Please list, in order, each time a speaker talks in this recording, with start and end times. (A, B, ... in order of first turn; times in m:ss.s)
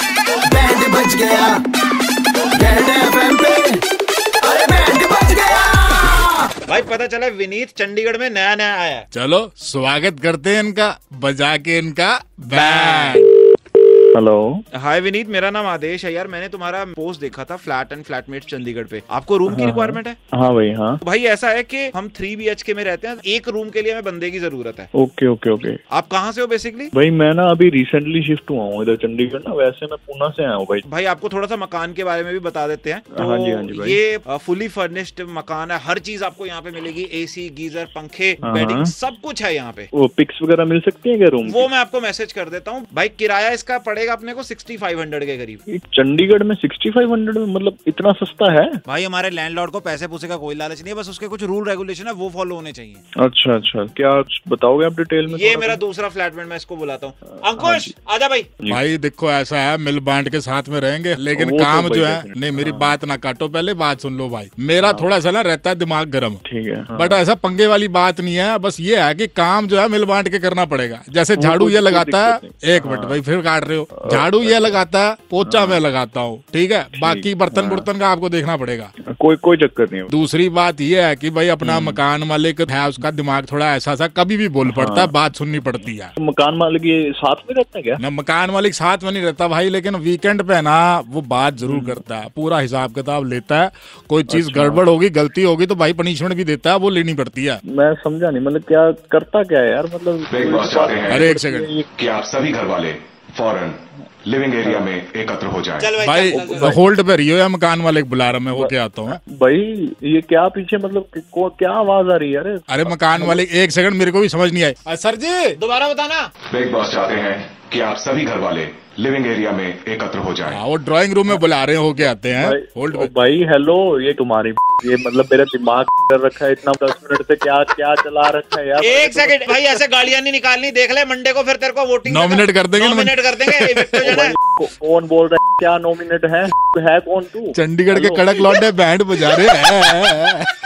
0:00.5-0:01.6 A
0:02.5-0:03.8 A
0:04.4-0:06.3 A
0:06.7-0:09.0 B
0:09.1-0:13.2 C
0:12.5-0:13.3 B
0:14.1-0:14.6 D
0:14.8-0:20.2 B
0:19.5-0:21.0 D
0:21.0-0:24.9 B
0:25.0-0:25.8 D
0:25.9-0:26.9 B
0:26.9-0:30.8 D
0:30.9-0:39.9 B
0:33.1-0:34.0 D
0:38.4-0:38.9 D
0:39.9-0:41.7 D
0:41.5-0:45.6 B
0:45.7-0:48.7 D
0:48.9-0:53.0 B
0:53.2-0:55.8 D
0:55.3-0:58.5 B
0:57.6-0:57.9 D
0:58.7-1:06.4 C
1:01.3-1:03.0 D
1:04.8-1:05.1 D
1:06.4-1:07.2 D
1:06.9-1:18.9 C
1:11.4-1:13.2 D
1:14.0-1:14.8 D
1:15.4-1:15.8 D
1:16.9-1:17.9 D
1:19.1-1:20.1 D
1:20.1-1:26.1 C
1:21.6-1:22.0 D
1:24.6-1:25.1 D
1:26.2-1:28.0 D
1:28.0-1:37.6 C
1:31.6-1:32.0 D
1:34.3-1:34.8 D
1:37.7-1:41.9 D
1:40.3-1:41.3 E
1:41.1-1:41.7 C
1:42.0-1:46.0 E
1:45.8-1:46.8 B
1:46.0-1:49.2 C
1:46.3-1:46.8 D
1:48.5-1:53.4 D
1:52.7-1:55.6 C
1:55.6-1:56.3 B
1:56.5-2:00.6 E
2:00.5-2:03.1 C
2:02.3-2:09.8 D
2:08.8-2:14.3 B
2:12.1-2:14.0 C
2:14.0-2:18.5 D
2:17.5-2:20.5 C